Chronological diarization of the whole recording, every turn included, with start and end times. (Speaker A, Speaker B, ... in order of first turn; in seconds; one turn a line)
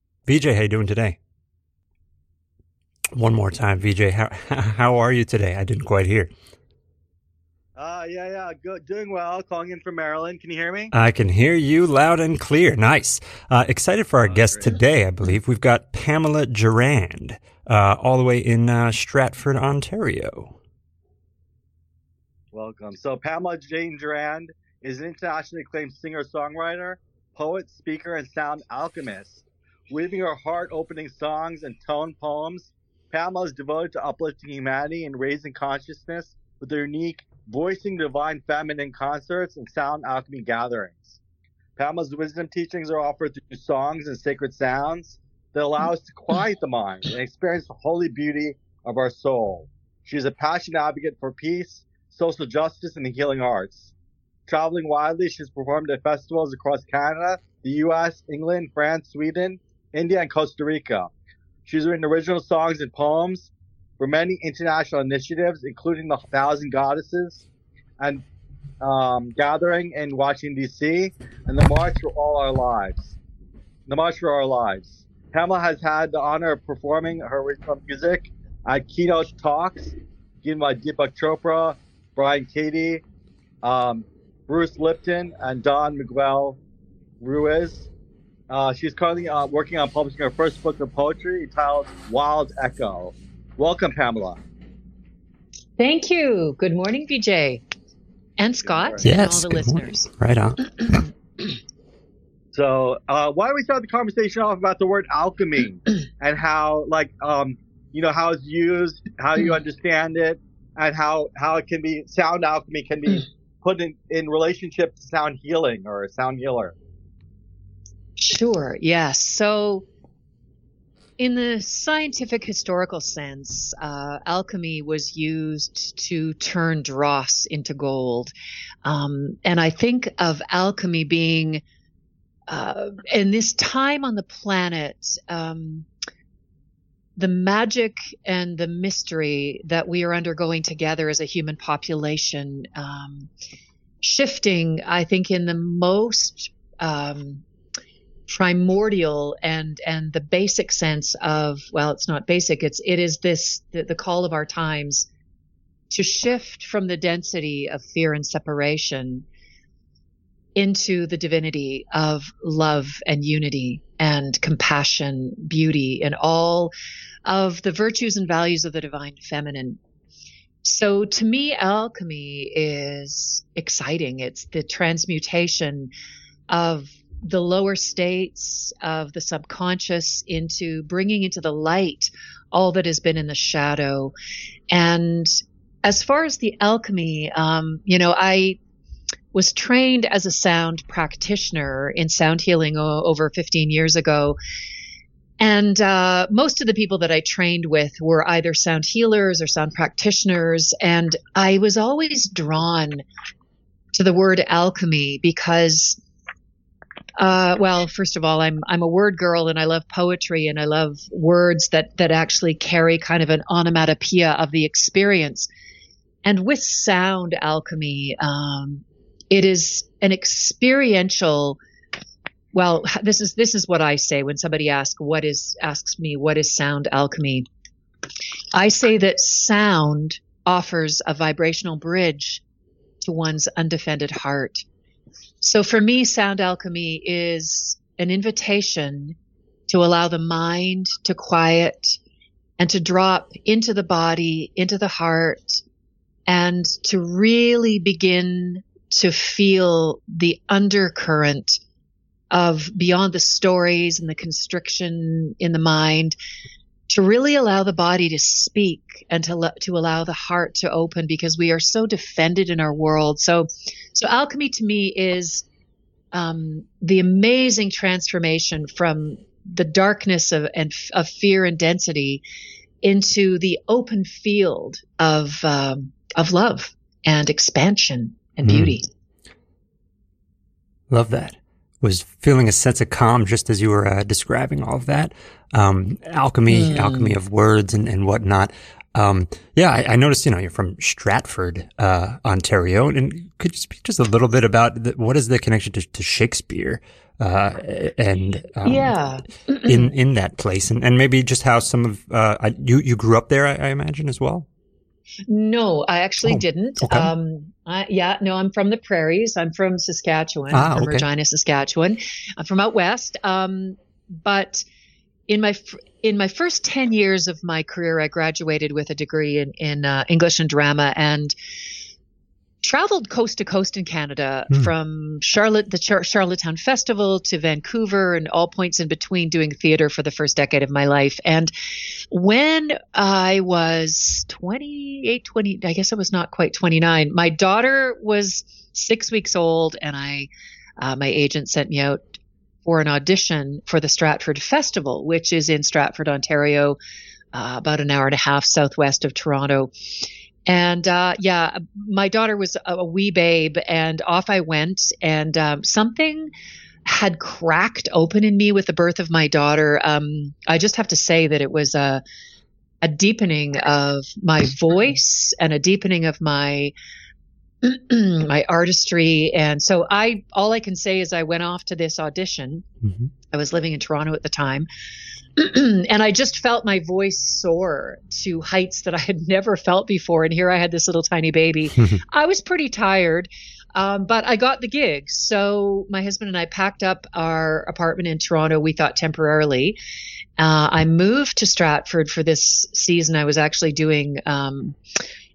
Speaker A: 0.2-1.2
Speaker A: 3.1-6.3
Speaker B: 7.8-10.9
Speaker A: 10.9-20.6
Speaker B: 14.2-14.7
Speaker B: 22.5-41.2
Speaker B: 41.8-53.9
Speaker B: 54.5-61.1
Speaker B: 61.7-67.4
Speaker B: 68.8-73.2
Speaker B: 73.9-83.0
Speaker B: 83.6-86.6
Speaker B: 87.2-87.9
Speaker B: 88.5-94.4
Speaker C: 95.8-97.6
Speaker C: 98.4-100.1
Speaker B: 98.7-99.0
Speaker A: 99.0-101.1
Speaker B: 102.5-116.7
Speaker C: 118.2-119.8
Speaker C: 121.2-128.3
Speaker C: 128.8-131.6
Speaker C: 132.5-135.9
Speaker C: 137.2-143.3
Speaker C: 144.0-147.4
Speaker C: 148.3-155.1
Speaker C: 155.9-159.2
Speaker C: 160.6-166.7
Speaker C: 167.2-169.8
Speaker C: 170.6-175.9
Speaker C: 176.5-184.1
Speaker C: 184.7-188.6
Speaker C: 189.3-194.4
Speaker C: 195.4-203.0
Speaker C: 203.9-206.0
Speaker C: 207.2-215.5
Speaker C: 216.2-221.6
Speaker C: 222.5-227.5
Speaker C: 228.5-232.4
Speaker C: 233.0-234.6
Speaker C: 235.4-239.2
Speaker C: 239.7-242.0
Speaker C: 242.6-245.6
Speaker C: 246.3-251.6
Speaker C: 252.3-256.1
Speaker C: 256.9-265.4
Speaker C: 266.1-272.2
Speaker C: 272.8-278.9
Speaker A: 278.4-278.8
Speaker A: 280.9-298.9
Speaker C: 286.5-287.1
Speaker C: 298.6-299.9
Speaker A: 299.6-304.5
Speaker C: 305.3-314.6
Speaker A: 306.2-307.1
Speaker A: 310.5-311.1
Speaker C: 315.3-321.3
Speaker C: 322.6-342.0
Speaker C: 342.6-346.8
Speaker C: 347.3-356.3
Speaker C: 356.9-362.0
Speaker C: 362.8-366.7
Speaker C: 367.6-372.6
Speaker C: 373.3-374.7
Speaker C: 375.4-389.8
Speaker C: 390.4-394.8